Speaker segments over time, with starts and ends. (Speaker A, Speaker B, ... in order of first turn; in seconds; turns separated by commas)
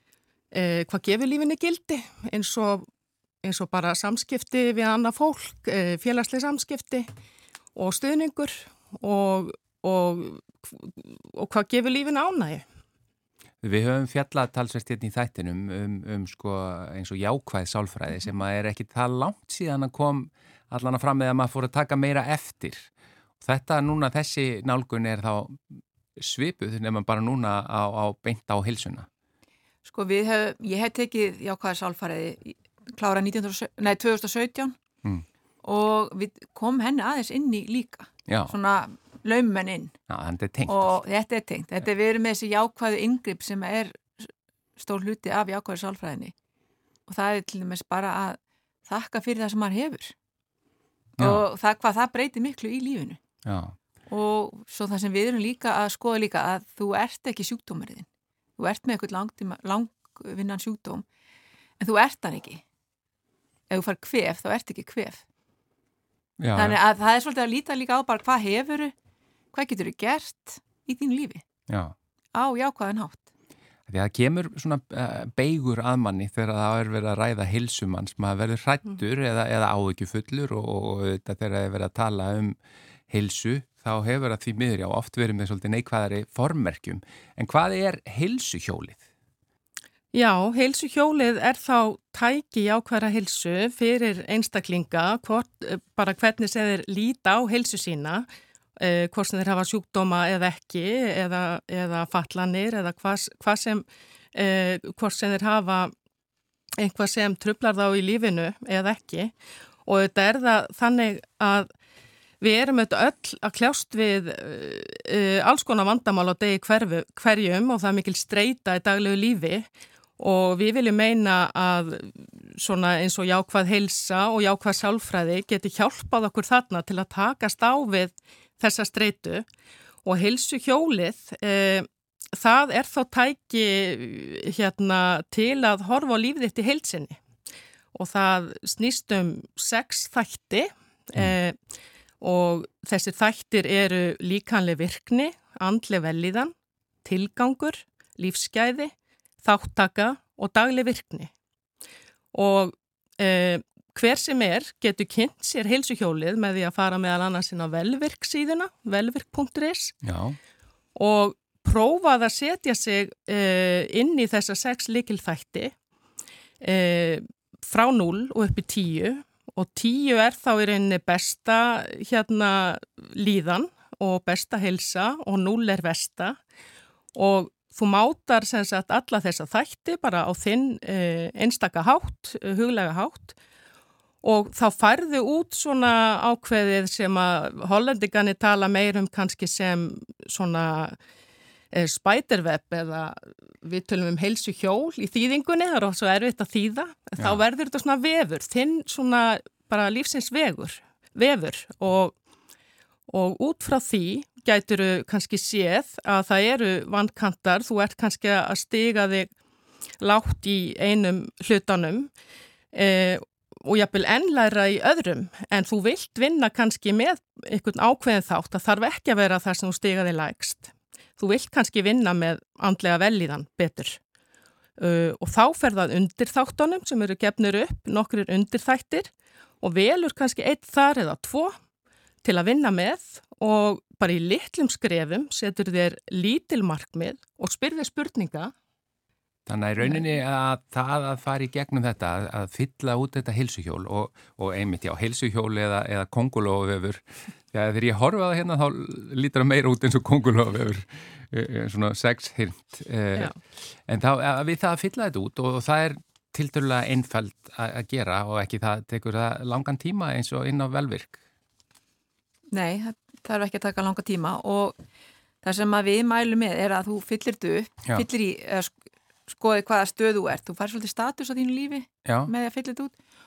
Speaker A: 0.5-2.9, Speaker A: 3.4-7.1, Speaker A: 7.8-12.7, Speaker B: 13.6-22.9, Speaker B: 23.4-25.6, Speaker B: 26.2-29.1, Speaker C: 29.9-34.8, Speaker C: 35.6-39.9, Speaker B: 38.3-38.5, Speaker B: 40.1-41.0, Speaker C: 40.7-46.3, Speaker C: 47.1-50.1, Speaker C: 51.2-53.2, Speaker B: 51.2-51.5, Speaker B: 53.5-53.8, Speaker C: 54.1-58.1, Speaker C: 58.6-61.0, Speaker C: 61.8-62.6, Speaker C: 63.7-65.2, Speaker B: 66.4-66.8, Speaker C: 66.5-68.9, Speaker C: 69.5-71.4, Speaker B: 71.7-72.0, Speaker C: 72.3-73.3, Speaker B: 73.9-82.6, Speaker B: 83.1-89.0, Speaker A: 90.1-105.9, Speaker A: 106.8-109.3, Speaker A: 109.8-111.7, Speaker A: 112.4-129.5, Speaker A: 130.0-137.2, Speaker A: 137.9-141.6, Speaker A: 142.2-146.5, Speaker A: 147.0-151.3, Speaker A: 152.3-160.0, Speaker B: 160.0-160.4, Speaker A: 161.0-165.8, Speaker A: 166.6-176.4, Speaker A: 177.1-183.3, Speaker A: 184.2-191.0, Speaker A: 191.7-202.2, Speaker A: 203.1-209.3, Speaker A: 210.0-212.1, Speaker A: 212.7-224.0, Speaker A: 224.8-231.6, Speaker A: 232.2-238.5, Speaker B: 239.5-261.2, Speaker C: 262.5-264.8, Speaker C: 265.4-268.8, Speaker C: 269.3-272.9, Speaker B: 272.1-272.3